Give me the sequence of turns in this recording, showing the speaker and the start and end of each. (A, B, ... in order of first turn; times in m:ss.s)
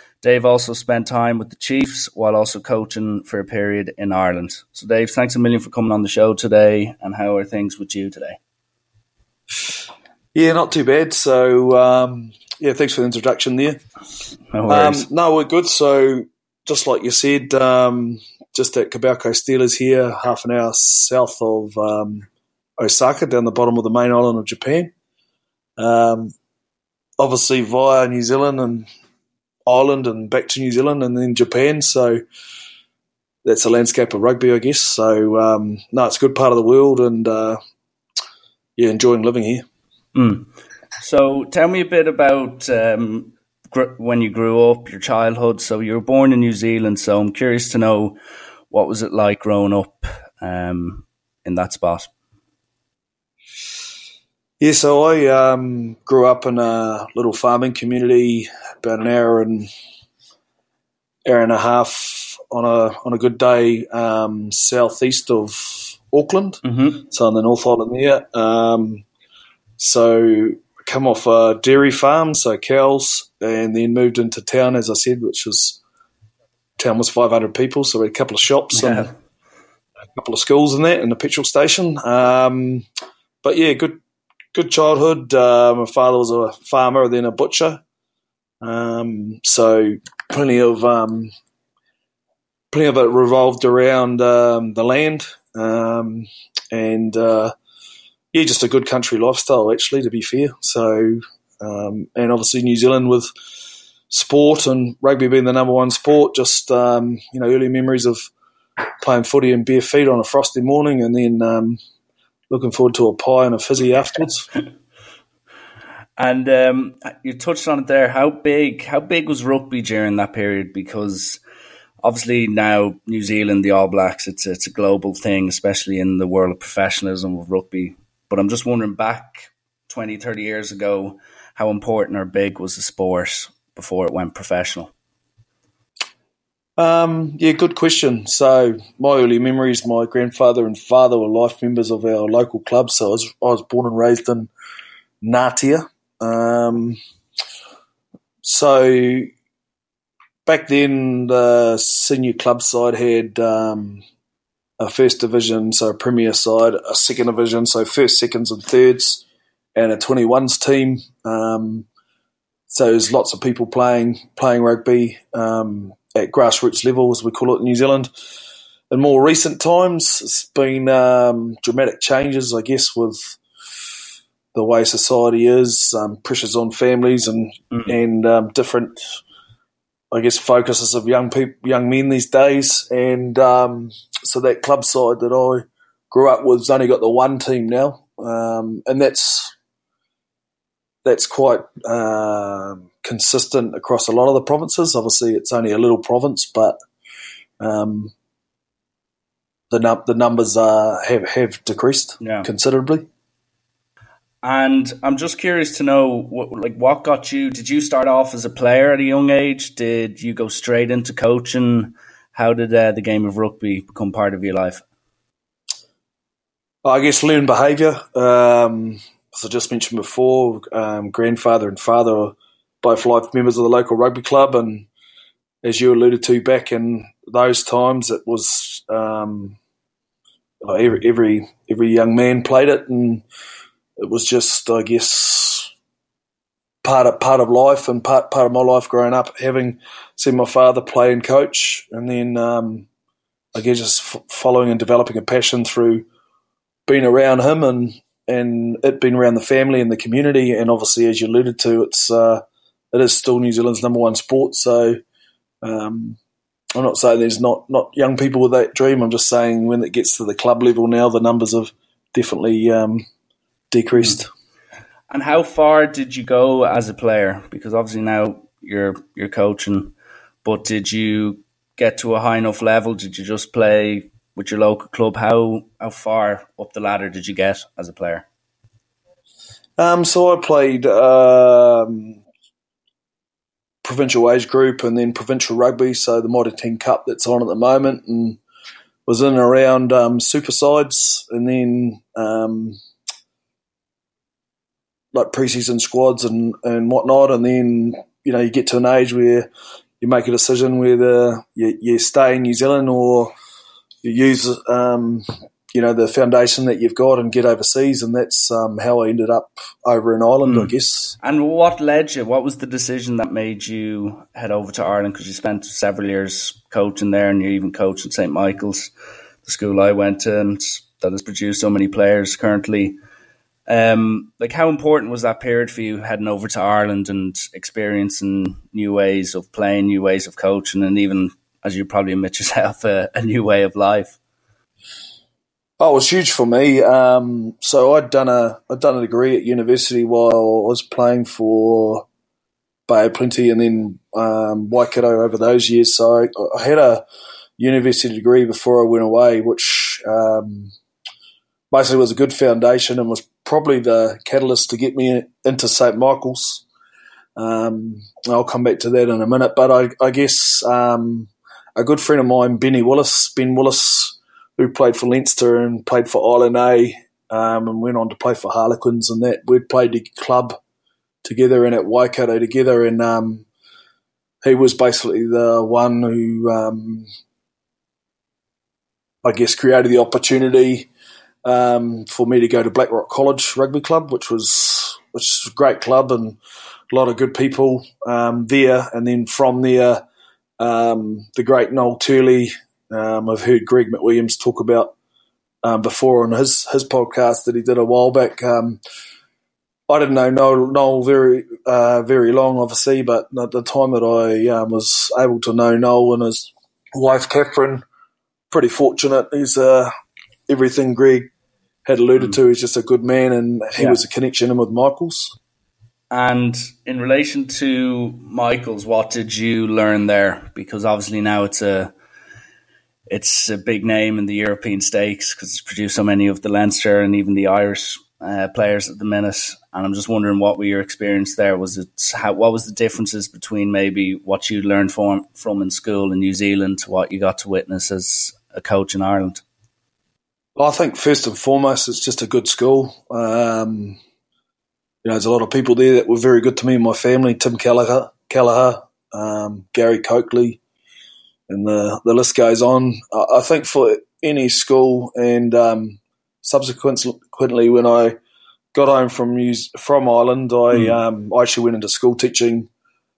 0:00.2-0:08.4 A
0:10.3-0:13.8 B
0:14.5-0:15.0 A
0:14.7-0:22.2 B
0:22.8-0:24.9 B
0:25.8-0:26.3 B
0:27.2-0:28.9 B
0:29.6-0:32.2 B
0:33.4-0:37.6 B
0:38.8-0:39.6 B
0:40.1-0:40.5 A
0:41.0-0:48.2 A
0:48.7-0:52.1 A
0:54.6-0:59.7 B
1:01.2-1:09.0 B
1:06.6-1:07.0 A
1:09.8-1:15.8 B
1:16.8-1:19.1 B
1:18.7-1:19.1 A
1:20.1-1:22.8 B
1:23.4-1:24.0 B
1:24.5-1:27.8 B
1:28.6-1:31.3 B
1:32.7-1:37.5 B
1:38.3-1:43.3 B
1:44.1-1:48.3 B
1:49.0-1:51.8 B
1:52.5-1:54.5 B
1:56.2-2:01.4 A
2:02.0-2:14.9 A
2:16.8-2:24.5 B
2:25.2-2:27.0 B
2:28.4-2:29.3 B
2:30.4-2:34.0 B
2:34.8-2:39.2 B
2:39.7-2:41.8 B
2:42.7-2:48.1 B
2:48.9-2:53.4 B
2:54.5-2:59.2 B
3:00.1-3:09.5 B
3:11.0-3:16.7 B
3:17.6-3:18.1 B
3:19.7-3:23.0 B
3:22.2-3:22.5 A
3:24.4-3:34.8 A
3:36.8-3:44.9 B
3:45.6-3:49.6 B
3:50.6-3:53.2 B
3:54.0-3:55.7 B
3:56.8-4:02.9 B
4:03.5-4:06.0 B
4:06.9-4:15.0 B
4:15.6-4:16.2 B
4:16.7-4:23.0 B
4:23.7-4:24.3 B
4:25.1-4:29.9 A
4:30.4-4:38.2 A
4:39.8-4:42.2 B
4:43.8-4:48.4 B
4:49.0-4:52.8 B
4:55.1-4:59.5 B
5:00.0-5:03.3 B
5:04.0-5:11.1 B
5:10.4-5:18.9 A
5:19.4-5:23.0 A
5:23.7-5:34.2 A
5:35.8-5:42.0 B
5:42.9-5:47.0 B
5:47.6-5:50.7 B
5:51.7-5:56.6 B
5:57.4-6:10.6 B
6:11.2-6:13.4 B
6:14.4-6:17.1 B
6:19.2-6:20.9 B
6:21.4-6:26.4 B
6:26.9-6:30.0 B
6:30.6-6:34.9 B
6:35.6-6:38.8 B
6:39.9-6:47.8 B
6:48.5-6:49.9 B
6:50.5-6:51.3 B
6:51.8-6:55.4 B
6:56.1-7:01.9 A
7:03.1-7:19.4 A
7:20.6-7:24.0 B
7:25.0-7:30.6 B
7:31.5-7:38.2 B
7:38.7-7:42.7 B
7:40.7-7:41.0 A